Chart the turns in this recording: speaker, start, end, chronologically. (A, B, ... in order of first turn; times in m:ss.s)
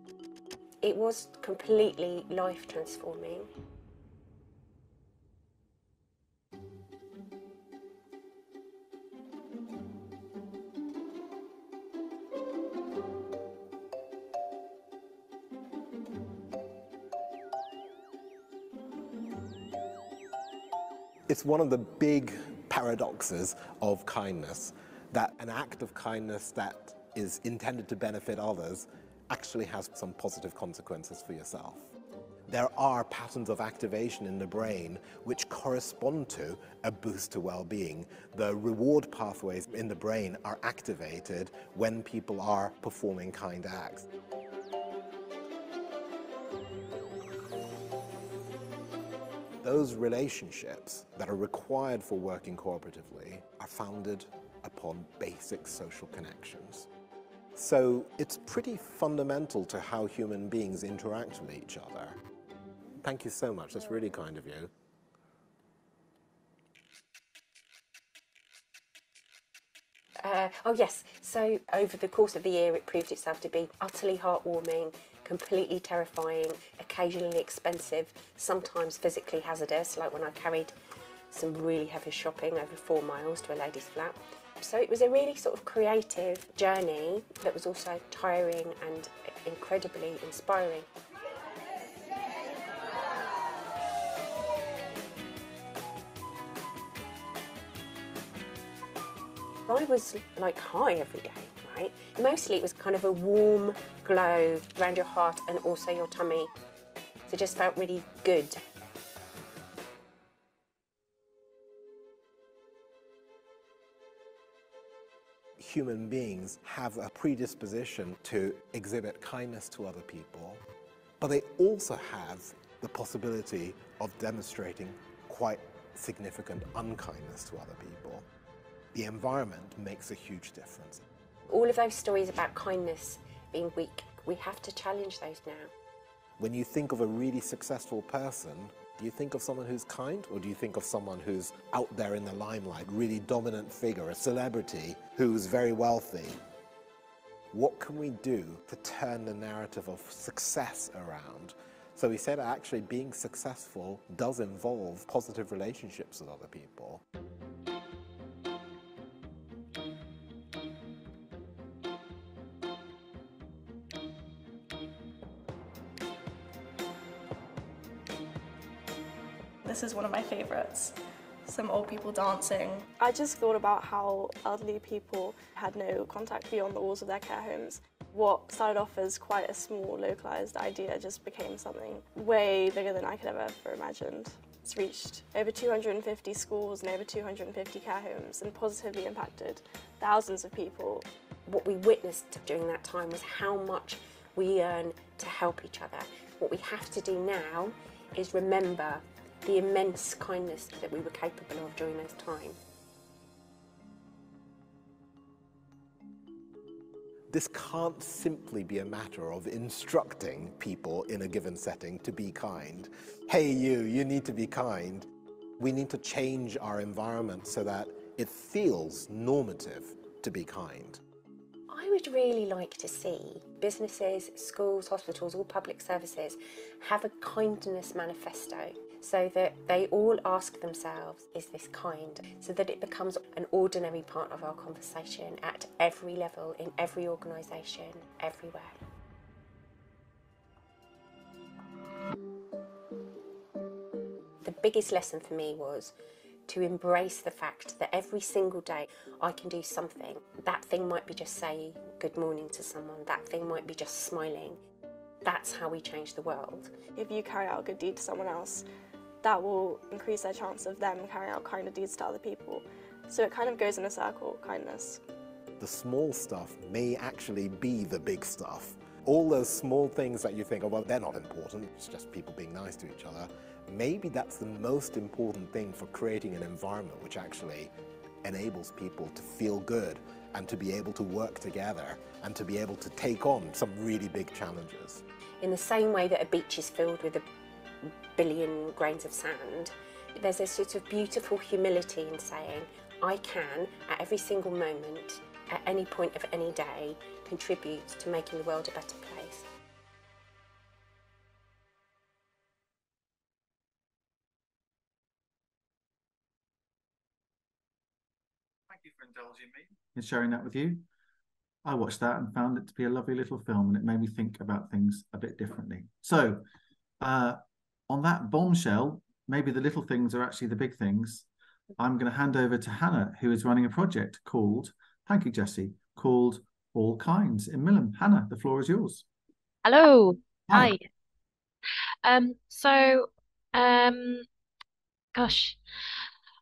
0:00.8-0:03.5 A
0:21.3-0:31.9 B
0:32.5-0:44.1 B
0:49.6-0:56.9 B
0:57.6-1:02.2 B
1:03.0-1:04.7 B
1:10.2-1:20.7 A
1:21.3-1:30.9 A
1:39.7-1:46.5 A
1:47.3-1:48.6 A
1:55.6-2:00.6 B
2:01.2-2:08.2 B
2:08.9-2:11.0 B
2:11.5-2:15.7 A
2:16.4-2:26.4 B
2:27.5-2:37.0 B
2:49.6-2:51.0 C
2:51.5-3:11.1 C
3:11.5-3:22.6 A
3:27.3-3:35.1 B
3:35.6-3:41.0 B
3:41.7-3:58.8 A
4:04.4-4:06.0 A
4:06.5-4:14.6 A
4:15.2-4:16.8 A
4:17.0-4:18.6 C
4:19.2-4:25.0 C
4:25.6-4:37.7 B
4:38.2-4:45.0 B
4:45.4-4:47.2 A
4:47.8-4:59.5 A
5:08.7-5:10.8 D
5:11.6-5:16.4 D
5:17.0-5:21.3 D
5:21.8-5:29.0 D
5:29.6-5:30.9 E
5:30.5-5:30.7 D
5:32.0-5:34.3 E
5:35.2-5:35.6 E